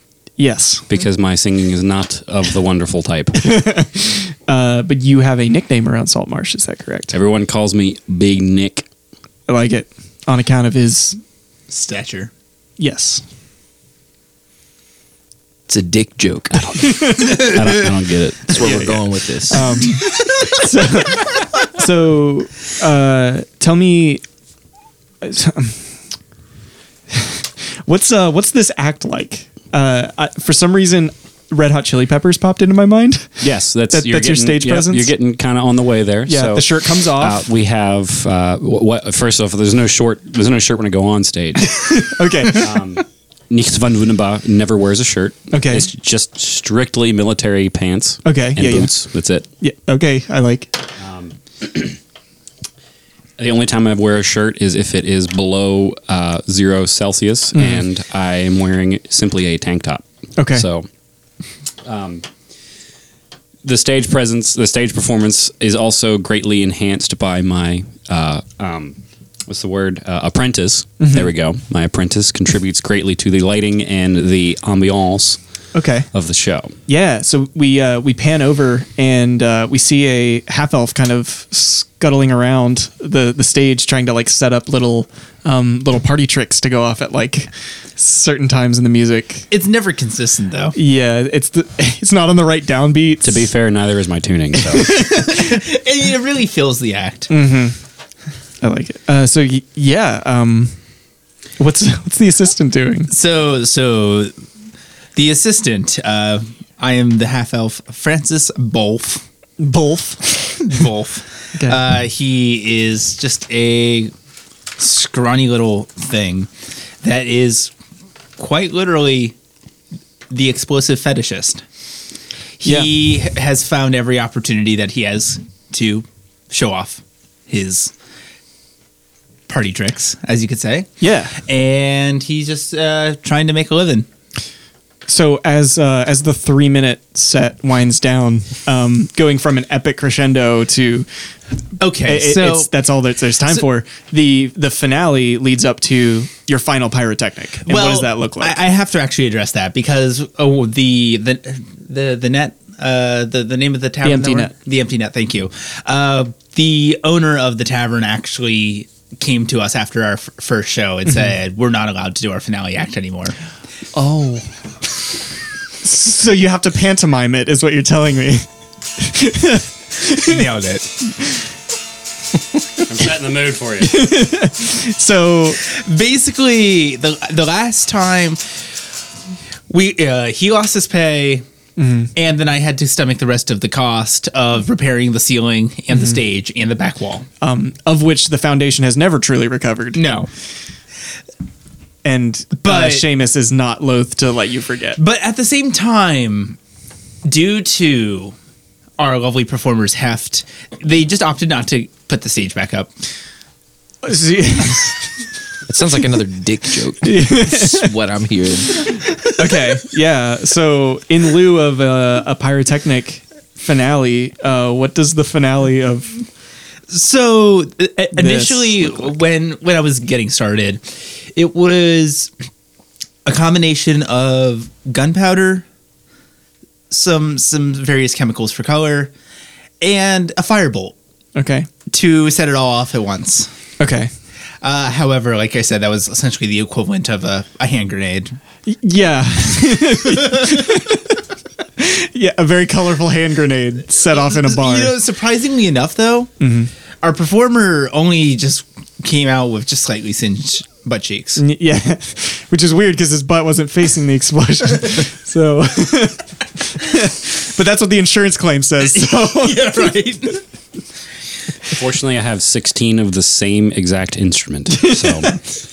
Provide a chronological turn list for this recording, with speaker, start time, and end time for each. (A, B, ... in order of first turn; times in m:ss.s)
0:00.4-0:00.9 A
0:00.9-0:03.5 B
0:03.4-0:07.1 A
0:07.1-0:08.9 B
0:09.5-0:11.2 A
0:11.7-0:12.3 C
0:12.8-0:13.2 A
0:15.7-0:17.1 D
0:16.7-0:19.0 B
0:16.8-0:17.4 A
0:18.5-0:19.8 D
0:18.6-0:18.9 A
0:19.5-0:24.2 A
0:25.2-0:25.8 A
0:27.1-0:35.1 A
0:33.4-0:49.4 B
0:36.3-0:37.5 A
0:41.6-0:42.7 A
0:45.5-0:45.9 A
0:48.2-0:48.9 A
0:49.6-0:50.8 A
0:51.0-0:52.0 B
0:53.4-1:00.9 B
0:57.5-0:57.8 A
1:00.4-1:00.7 A
1:01.8-1:02.3 B
1:03.6-1:15.4 B
1:11.0-1:11.3 A
1:15.7-1:16.1 A
1:16.1-1:16.8 B
1:16.9-1:29.5 A
1:29.5-1:30.8 C
1:30.7-1:33.5 A
1:33.2-1:35.0 B
1:34.6-1:35.6 A
1:35.0-1:37.3 C
1:37.3-1:37.8 A
1:38.6-1:40.8 A
1:41.6-1:43.1 A
1:43.1-1:44.3 C
1:45.2-1:49.2 C
1:49.6-1:50.6 A
1:50.6-1:54.1 C
1:51.6-1:51.8 A
1:54.8-1:56.5 C
1:57.0-1:57.7 C
1:58.4-1:59.4 C
2:00.3-2:01.6 C
2:02.6-2:07.9 C
2:02.6-2:02.9 A
2:09.5-2:14.1 C
2:11.0-2:11.4 A
2:15.1-2:21.1 A
2:21.8-2:22.7 C
2:22.0-2:28.6 A
2:27.7-2:43.4 C
2:34.0-2:34.6 A
2:43.9-2:44.5 A
2:45.8-2:48.5 A
2:49.0-2:50.5 A
2:50.2-2:50.9 C
2:52.8-2:54.1 B
2:53.8-2:55.6 A
2:55.6-2:58.6 C
2:59.7-3:01.4 C
3:01.8-3:02.1 A
3:02.2-3:07.3 C
3:07.4-3:10.2 A
3:10.0-3:10.3 C
3:12.0-3:15.0 A
3:12.6-3:13.1 C
3:15.0-3:16.6 C
3:17.2-3:18.4 C
3:19.0-3:22.9 C
3:24.0-3:25.1 A
3:25.7-3:28.9 D
3:27.0-3:27.9 A
3:29.3-3:36.2 A
3:36.9-3:42.3 C
3:38.0-3:39.2 A
3:43.2-3:45.6 C
3:46.9-3:49.1 C
3:49.8-3:51.0 C
3:51.4-3:51.7 A
3:51.9-3:53.5 C
3:53.8-3:54.1 A
3:54.6-3:58.4 C
3:58.7-4:01.2 A
4:01.8-4:05.0 A
4:04.1-4:06.3 C
4:06.4-4:06.7 A
4:07.0-4:11.4 C
4:11.4-4:19.9 A
4:18.8-4:20.4 C
4:21.7-4:25.4 B
4:24.7-4:25.4 A